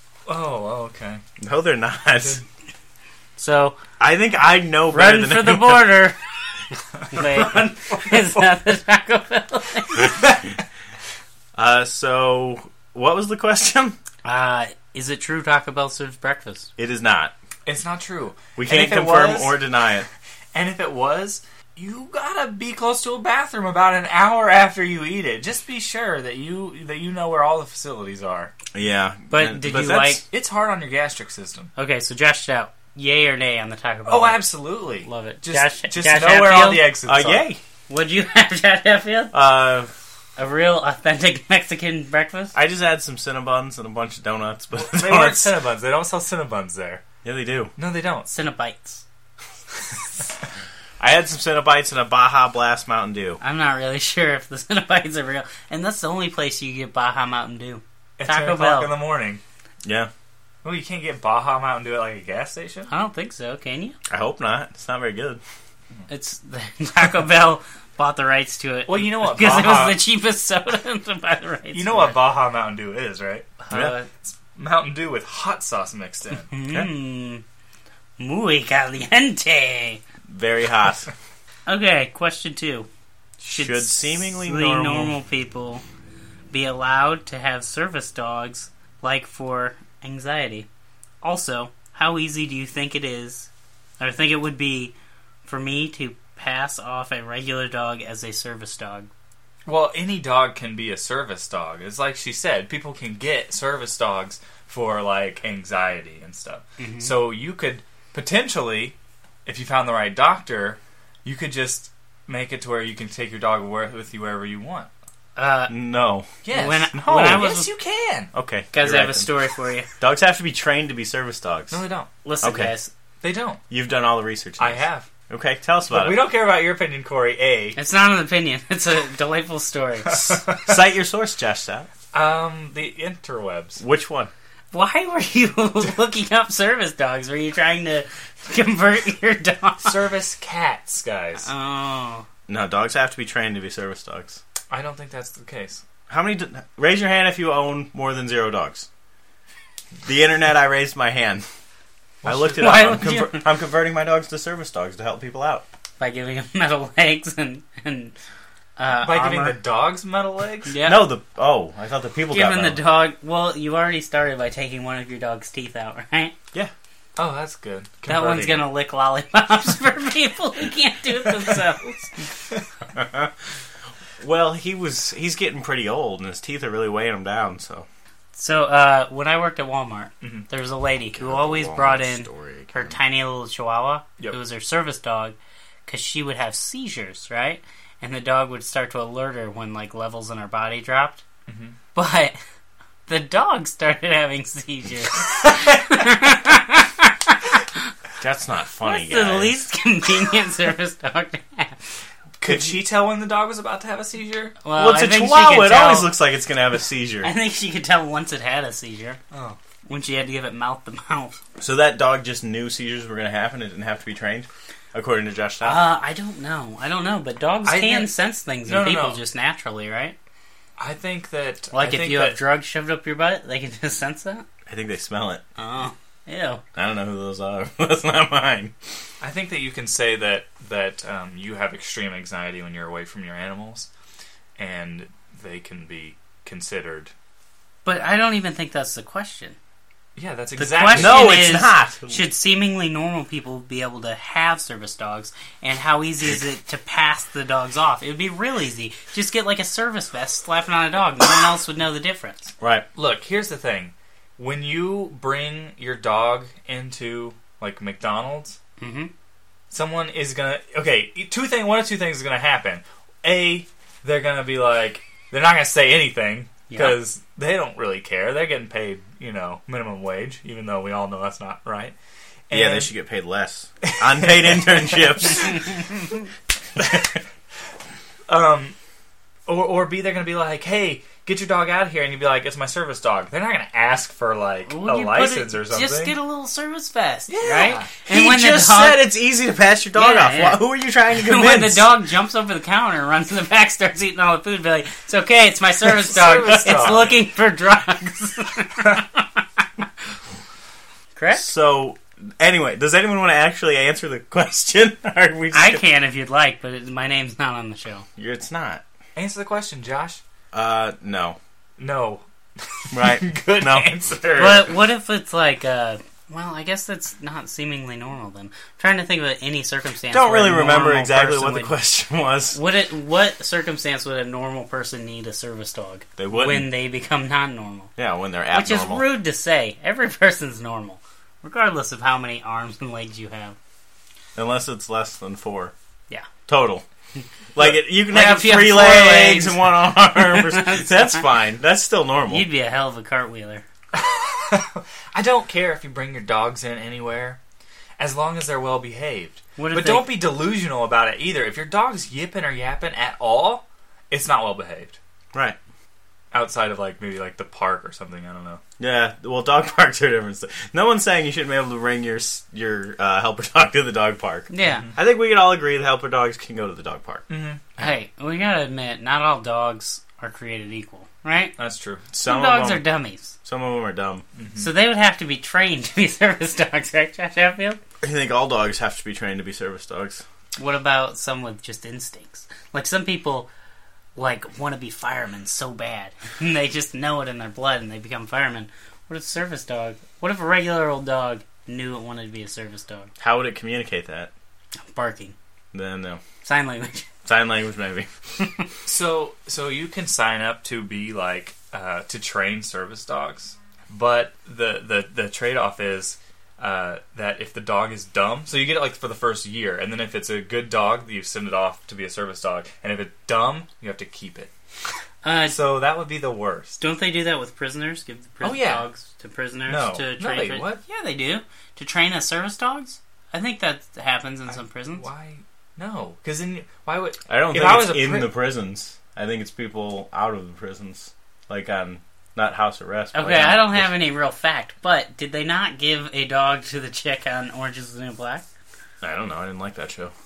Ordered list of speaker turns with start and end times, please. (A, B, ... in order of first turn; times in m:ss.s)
0:00.2-0:01.2 A
0:01.4-0:02.4 B
0:03.4-0:03.8 C
0:04.0-0:05.9 B
0:04.9-0:06.2 C
0:07.1-0:10.2 C
0:11.5-0:14.0 B
0:14.2-0:16.7 C
0:16.8-0:17.3 B
0:17.6-0:19.6 A
0:18.6-0:20.1 B
0:20.5-0:28.5 A
0:28.7-0:30.2 B
0:29.3-0:30.2 C
0:30.3-0:31.7 A
0:31.8-0:34.4 C
0:34.1-0:37.4 A
0:35.0-0:36.9 C
0:37.0-0:37.6 B
0:37.9-0:39.4 C
0:39.3-0:39.9 B
0:40.4-0:42.5 C
0:42.5-0:45.5 B
0:44.7-0:47.0 A
0:47.2-0:47.7 B
0:47.8-0:48.3 A
0:48.3-0:49.0 C
0:51.0-0:53.4 B
0:53.4-0:58.9 C
0:58.2-0:59.4 A
0:59.8-1:00.1 B
1:00.6-1:02.9 A
1:02.9-1:04.0 C
1:04.1-1:05.4 B
1:06.1-1:12.2 C
1:08.9-1:10.0 A
1:11.7-1:16.5 A
1:16.5-1:17.4 C
1:18.2-1:20.0 C
1:20.3-1:21.1 B
1:21.6-1:22.9 C
1:23.4-1:25.1 B
1:23.5-1:25.8 C
1:26.5-1:30.7 C
1:31.2-1:34.9 C
1:35.4-1:39.1 C
1:39.6-1:48.9 A
1:46.8-1:47.1 C
1:49.4-1:54.9 A
1:55.4-1:55.7 C
1:55.7-1:56.4 B
1:56.4-1:58.3 A
1:56.5-1:57.7 C
1:56.9-1:57.4 B
1:58.3-1:59.3 B
1:58.7-1:59.9 C
2:00.0-2:01.8 B
2:01.7-2:02.1 A
2:02.2-2:02.9 C
2:02.4-2:02.7 B
2:03.2-2:03.6 A
2:03.7-2:06.2 B
2:04.6-2:05.1 A
2:05.9-2:07.8 A
2:07.8-2:10.4 C
2:10.0-2:10.7 A
2:10.6-2:11.9 B
2:12.1-2:13.8 A
2:13.8-2:14.3 B
2:14.7-2:20.0 C
2:19.8-2:21.5 A
2:21.4-2:22.2 C
2:22.5-2:24.4 B
2:24.7-2:25.8 A
2:26.1-2:28.9 B
2:30.0-2:31.4 B
2:32.2-2:33.0 A
2:32.2-2:35.6 B
2:32.6-2:33.4 C
2:36.0-2:38.1 C
2:38.8-2:39.6 C
2:39.0-2:40.7 A
2:40.7-2:41.1 C
2:40.8-2:42.8 B
2:42.3-2:46.3 C
2:47.2-2:48.6 A
2:48.0-2:52.1 C
2:52.9-2:53.3 B
2:54.2-2:57.9 B
2:58.3-3:11.2 C
3:00.2-3:00.5 A
3:01.1-3:03.0 B
3:11.5-3:11.8 A
3:11.9-3:12.4 C
3:13.1-3:17.6 C
3:18.2-3:19.6 B
3:18.8-3:21.8 C
3:22.4-3:24.6 A
3:22.5-3:22.7 B
3:24.6-3:26.1 C
3:24.7-3:27.3 B
3:27.2-3:29.2 C
3:29.3-3:29.6 A
3:29.9-3:31.4 C
3:31.6-3:35.8 B
3:35.6-3:40.2 C
3:37.6-3:38.1 A
3:38.6-3:39.2 A
3:40.8-3:42.4 A
3:41.7-3:44.4 C
3:44.7-3:45.4 B
3:45.6-3:46.6 C
3:46.8-3:48.7 B
3:49.2-3:53.9 A
3:54.6-3:57.1 A
3:57.8-3:59.6 C
4:00.2-4:01.5 A
4:00.6-4:12.5 C
4:00.9-4:02.2 B
4:12.6-4:12.9 B
4:12.9-4:18.6 A
4:18.8-4:19.1 C
4:19.7-4:32.0 A
4:26.7-4:27.0 C
4:32.5-4:32.9 A
4:32.5-4:35.7 B
4:33.8-4:35.4 A
4:35.7-4:36.0 C
4:36.8-4:37.0 A
4:36.8-4:37.0 B
4:38.3-4:38.8 A
4:39.5-4:46.1 A
4:44.7-4:49.0 C
4:47.3-4:47.9 A
4:48.1-4:51.9 B
4:49.9-4:59.2 C
4:55.9-4:57.2 A
5:01.2-5:01.5 C
5:01.3-5:05.8 B
5:05.5-5:08.1 C
5:08.2-5:08.8 B
5:09.2-5:10.2 A
5:10.5-5:11.4 B
5:11.8-5:14.7 A
5:12.9-5:13.9 B
5:14.4-5:21.7 C
5:20.1-5:22.6 B
5:22.5-5:27.9 C
5:26.2-5:26.7 B
5:28.0-5:29.0 B
5:28.5-5:33.6 C
5:34.4-5:35.7 B
5:36.5-5:36.8 B
5:37.5-5:42.4 B
5:38.1-5:39.6 C
5:40.1-5:41.2 C
5:42.3-5:43.6 C
5:43.9-5:47.4 A
5:48.0-5:55.0 A
5:49.6-5:50.2 C
5:55.3-5:55.6 B
5:56.3-5:58.6 A
5:58.8-6:07.2 B
6:04.5-6:04.9 C
6:04.6-6:04.9 A
6:07.3-6:07.7 A
6:07.8-6:11.6 C
6:11.6-6:12.0 A
6:12.1-6:12.8 B
6:12.2-6:13.3 C
6:13.4-6:14.2 B
6:14.4-6:14.7 A
6:14.6-6:17.8 C
6:18.0-6:20.2 B
6:20.6-6:23.5 C
6:24.2-6:33.1 C
6:33.2-6:34.3 B
6:34.9-6:35.3 C
6:35.7-6:36.2 B
6:36.4-6:37.1 C
6:37.2-6:38.1 B
6:38.8-6:54.5 A
6:55.2-6:55.6 C
6:55.5-6:56.8 A
6:56.8-7:05.0 C
6:58.4-6:58.9 A
6:59.7-7:00.8 A
7:04.9-7:08.3 A
7:07.3-7:13.9 B
7:13.1-7:18.4 C
7:19.0-7:20.1 B